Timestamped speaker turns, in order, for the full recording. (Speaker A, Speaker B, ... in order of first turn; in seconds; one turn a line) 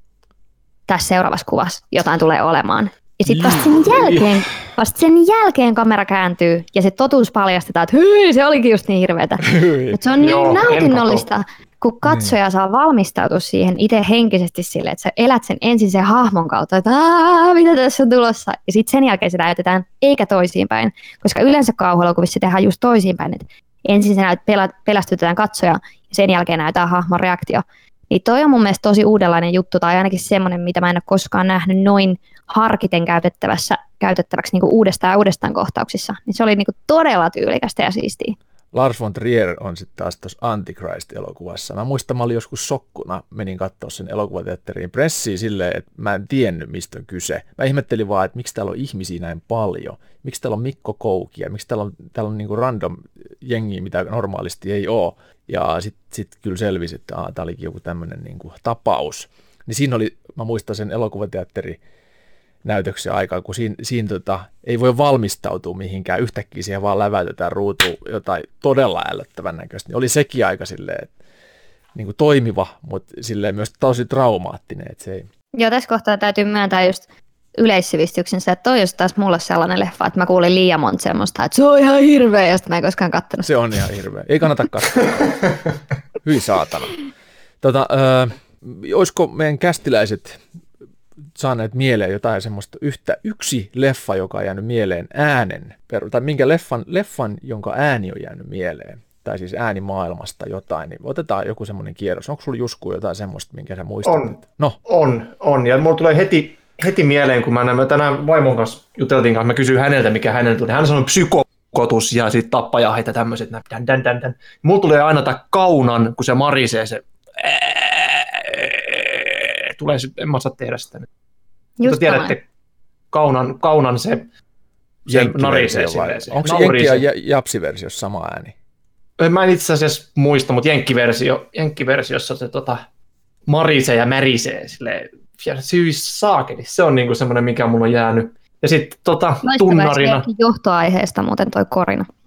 Speaker A: 0.9-38.4
Speaker B: 9.4-10.6
Speaker C: 10.2-11.3
Speaker B: 12.0-12.3
Speaker B: 38.7-61.8
Speaker B: 62.6-71.1
Speaker B: 71.9-75.3
Speaker A: 75.5-77.0
Speaker A: 77.6-83.5
Speaker B: 83.4-85.3
Speaker B: 86.2-87.0
Speaker B: 87.6-90.4
Speaker B: 91.3-104.8
Speaker C: 104.0-121.1
Speaker A: 121.8-122.3
Speaker C: 121.8-122.4
Speaker C: 123.1-124.3
Speaker C: 125.0-127.0
Speaker B: 125.1-128.5
Speaker C: 129.2-132.8
Speaker C: 133.5-140.2
Speaker A: 139.4-142.1